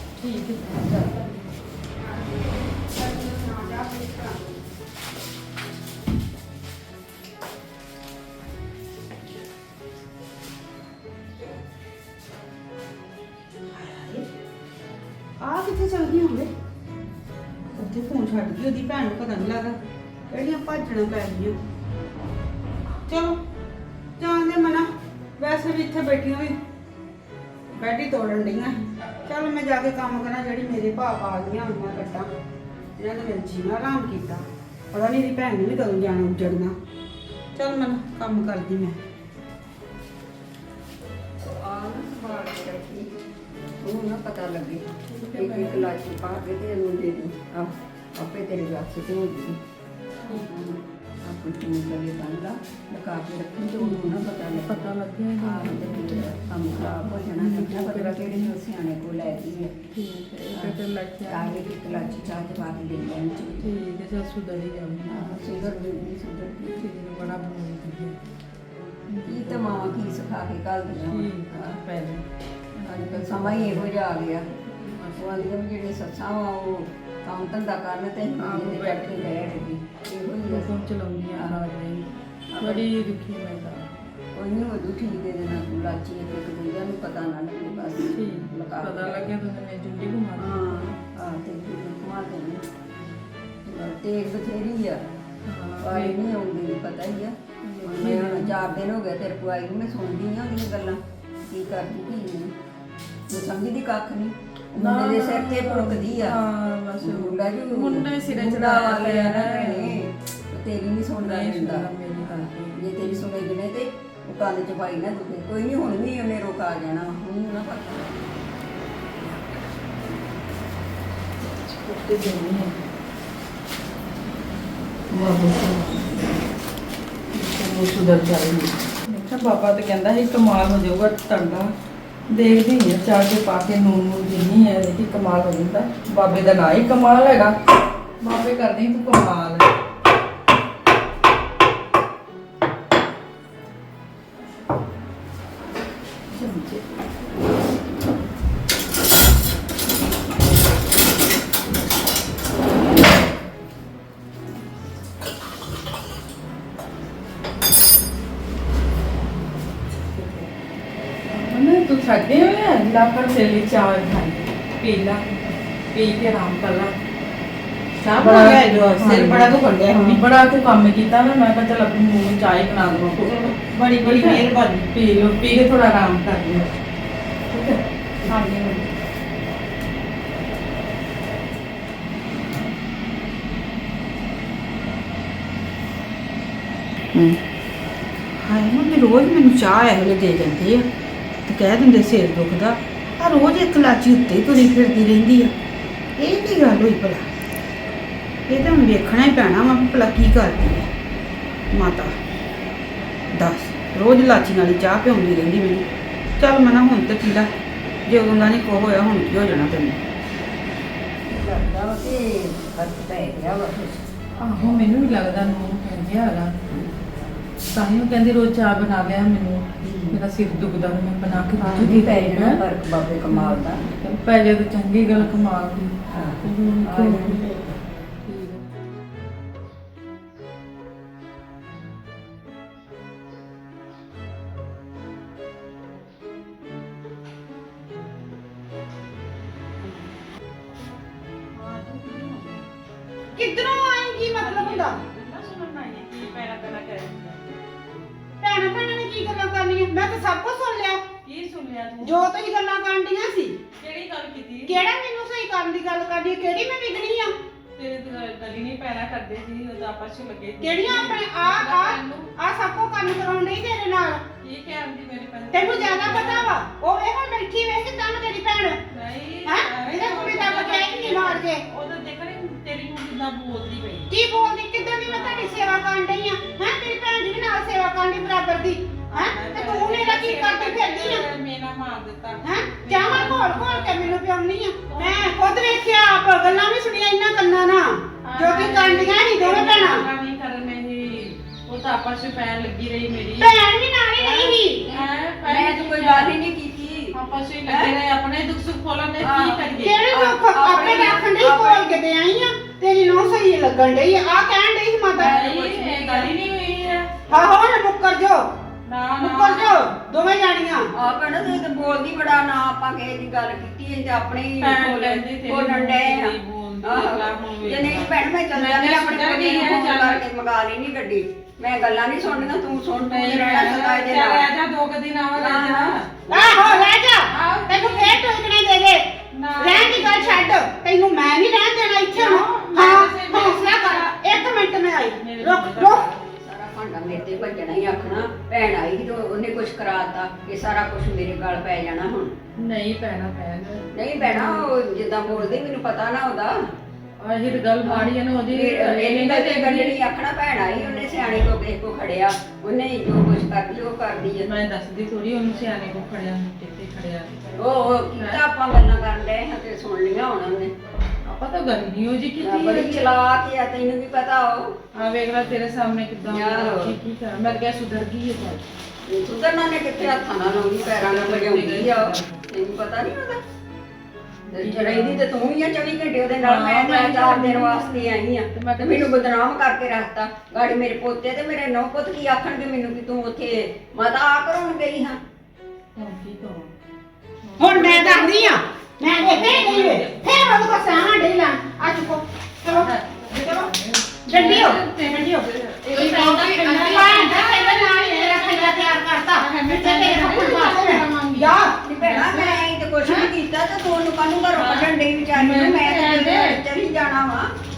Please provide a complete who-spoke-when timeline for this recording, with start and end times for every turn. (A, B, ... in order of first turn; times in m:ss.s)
0:00.2-0:01.1 A
0:00.8-0:01.0 B
0:02.0-0:04.6 C
0:13.7-0:14.3 C
0:15.4-0:16.5 C
0:17.7-0:19.8 C
0:20.3-0:21.6 C
0:23.1-0:23.4 C
0:24.2-0:26.6 C
0:27.7-0:32.3 C
0:33.0-0:36.7 C
0:37.6-0:39.0 C
0:41.4-0:43.1 B
0:43.8-0:49.6 B
0:45.1-0:45.9 A
0:50.3-0:59.8 B
0:53.8-0:58.6 A
1:00.0-1:02.1 A
1:00.5-1:03.7 B
1:03.6-1:05.4 A
1:05.1-1:06.9 B
1:06.8-1:08.2 A
1:09.1-1:09.9 A
1:09.2-1:11.8 B
1:10.9-1:13.9 A
1:12.8-1:14.5 B
1:14.5-1:15.5 A
1:15.2-1:20.7 B
1:18.4-1:19.6 A
1:20.5-1:23.9 A
1:21.4-1:21.7 B
1:22.5-1:22.9 B
1:24.3-1:29.4 B
1:28.0-1:30.9 A
1:30.4-1:32.6 B
1:33.7-1:35.0 B
1:35.5-1:36.2 A
1:35.8-1:42.5 B
1:37.6-1:38.6 A
1:43.3-1:46.4 B
1:44.8-1:50.0 A
1:47.0-1:58.2 B
1:51.2-1:53.2 A
2:01.4-2:02.8 A
2:05.1-2:06.4 A
2:07.3-2:11.7 A
2:12.3-2:17.6 A
2:18.2-2:19.7 A
2:26.3-2:26.8 A
2:40.2-2:40.4 A
2:41.3-2:45.2 A
2:45.9-2:46.9 A
2:48.0-2:56.7 A
2:48.1-2:50.3 C
2:53.2-2:54.9 C
2:57.5-2:58.3 A
2:58.3-2:58.8 C
3:08.4-3:10.9 C
3:11.5-3:15.5 C
3:16.2-3:17.3 C
3:18.5-3:20.9 C
3:21.7-3:22.2 C
3:23.3-3:25.9 C
3:26.4-3:27.5 C
3:28.1-3:30.0 C
3:31.3-3:34.1 B
3:34.4-3:36.6 A
3:37.7-3:42.6 A
3:39.8-3:40.2 B
3:41.6-3:43.8 B
3:43.3-3:47.5 A
3:46.1-3:47.7 B
3:48.3-3:48.6 A
4:01.6-4:02.6 A
4:03.4-4:05.0 C
4:04.4-4:07.4 A
4:08.4-4:11.0 C
4:11.2-4:12.3 A
4:12.0-4:13.6 C
4:13.8-4:14.8 A
4:14.7-4:17.3 C
4:17.8-4:22.3 A
4:20.6-4:24.2 C
4:24.4-4:26.6 A
4:25.5-4:28.8 C
4:28.9-4:34.1 A
4:29.4-4:31.6 C
4:34.1-4:41.3 C
4:35.0-4:35.8 A
4:39.1-4:44.2 A
4:42.4-4:50.0 C
4:44.9-4:45.8 A
4:48.2-4:53.6 A
4:53.4-4:54.9 C
4:54.2-4:56.4 A
4:54.2-4:57.9 B
4:57.2-5:00.1 A
4:59.2-5:02.0 B
4:59.8-5:05.4 C
5:00.8-5:01.1 A
5:05.2-5:06.3 B
5:05.2-5:07.1 A
5:07.3-5:08.5 C
5:08.9-5:09.9 A
5:09.2-5:10.9 C
5:10.9-5:24.5 B
5:14.6-5:20.2 A
5:23.0-5:28.3 A
5:25.3-5:26.8 B
5:26.3-5:29.0 C
5:29.3-5:30.6 A
5:29.6-5:36.1 C
5:32.1-5:34.6 A
5:35.2-5:36.2 A
5:36.2-5:42.4 B
5:37.6-5:38.2 A
5:42.6-5:44.7 A
5:43.9-5:46.7 B
5:45.2-5:45.6 A
5:47.2-5:50.1 A
5:47.8-5:54.5 B
5:54.4-5:58.4 A
5:57.6-6:00.7 B
6:01.2-6:03.1 A
6:02.4-6:04.8 B
6:04.9-6:08.6 A
6:06.3-6:07.0 B
6:09.1-6:13.4 B
6:10.1-6:12.4 A
6:14.5-6:15.3 A
6:14.5-6:25.2 B
6:16.4-6:19.3 A
6:26.0-6:26.7 A
6:27.4-6:31.3 A
6:27.6-6:33.7 C
6:31.8-6:43.3 A
6:34.3-6:41.8 C
6:41.8-6:47.5 B
6:44.5-6:46.6 A